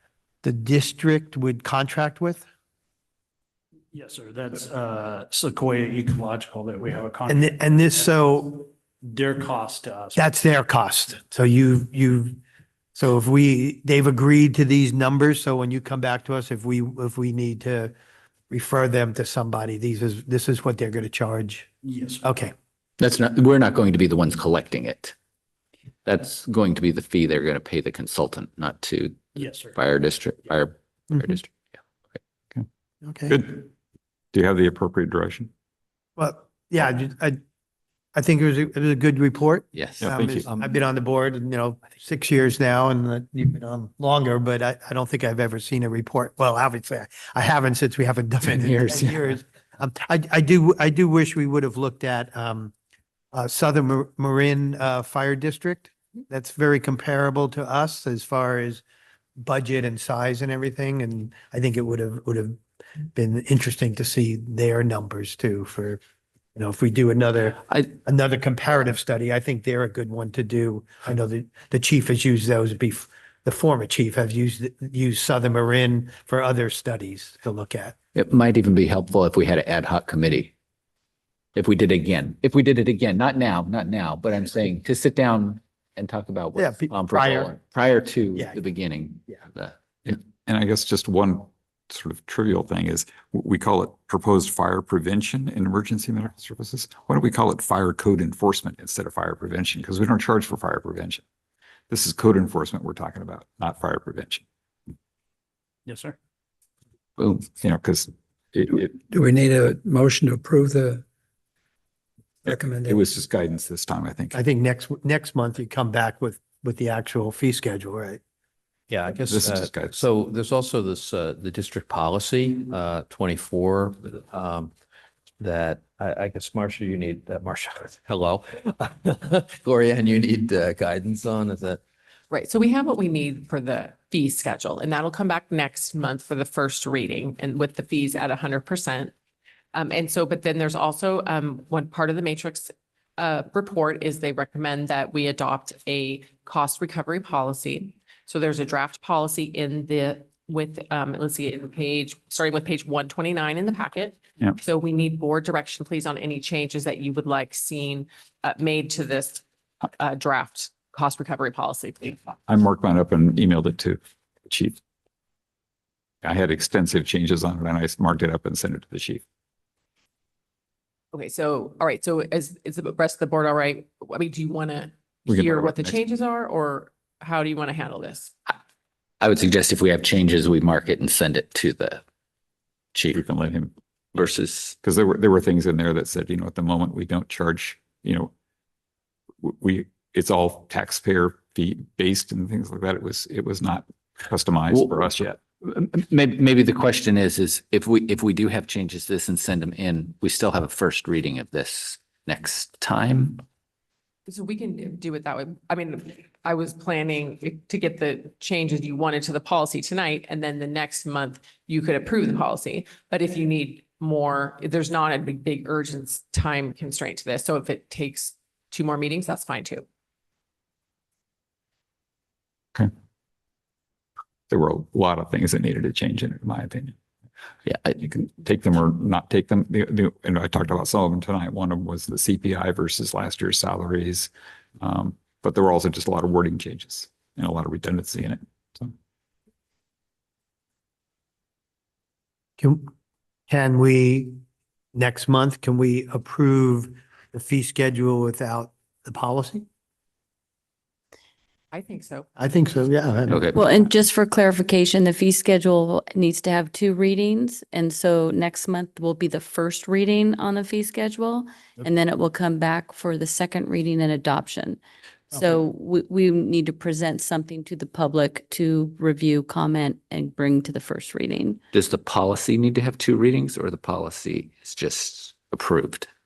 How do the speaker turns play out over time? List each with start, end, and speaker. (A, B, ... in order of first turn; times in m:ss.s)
0:00.4-0:02.5 A
0:03.9-0:08.0 B
0:07.3-0:08.7 A
0:09.0-0:10.2 B
0:10.1-0:12.4 A
0:12.9-0:17.9 A
0:18.5-0:21.7 A
0:21.8-0:22.2 B
0:22.2-0:22.5 A
0:23.0-0:25.1 C
0:26.0-0:31.5 C
0:29.4-0:29.8 B
0:33.0-0:33.4 A
0:33.3-0:33.6 D
0:34.3-0:35.5 D
0:36.2-0:37.4 A
0:38.1-0:52.7 A
0:39.7-0:40.1 C
0:40.0-0:40.5 D
0:48.4-0:49.3 C
0:53.3-0:58.8 A
0:59.4-1:02.6 A
1:03.1-1:06.0 A
1:06.6-1:18.0 A
1:18.1-1:20.5 C
1:21.5-1:29.8 C
1:26.6-1:27.5 A
1:30.0-1:41.2 D
1:41.9-1:44.4 D
1:45.8-1:46.1 B
1:47.3-1:49.0 D
1:49.1-1:51.0 E
1:52.4-1:54.4 D
1:52.5-1:52.8 E
1:54.3-1:58.2 A
1:58.9-2:04.7 F
1:59.3-2:00.0 D
2:05.4-2:11.8 F
2:12.3-2:19.1 G
2:19.7-2:39.4 G
2:40.0-2:42.2 G
2:42.5-2:44.8 D
2:46.2-2:49.2 D
2:51.1-2:58.3 G
2:55.3-2:56.0 D
2:59.2-3:02.0 C
3:02.9-3:03.2 C
3:03.1-3:03.7 D
3:04.1-3:04.8 C
3:04.8-3:08.3 D
3:09.4-3:15.3 D
3:14.7-3:23.4 C
3:24.3-3:39.8 G
3:44.5-3:46.9 D
3:47.6-3:48.0 C
3:48.0-3:58.9 D
4:02.6-4:02.9 A
4:03.5-4:04.4 A
4:04.9-4:09.6 A
4:11.7-4:12.3 G
4:12.4-4:13.6 A
4:13.3-4:13.6 C
4:13.5-4:24.8 H
4:25.3-4:31.6 H
4:31.7-4:36.1 C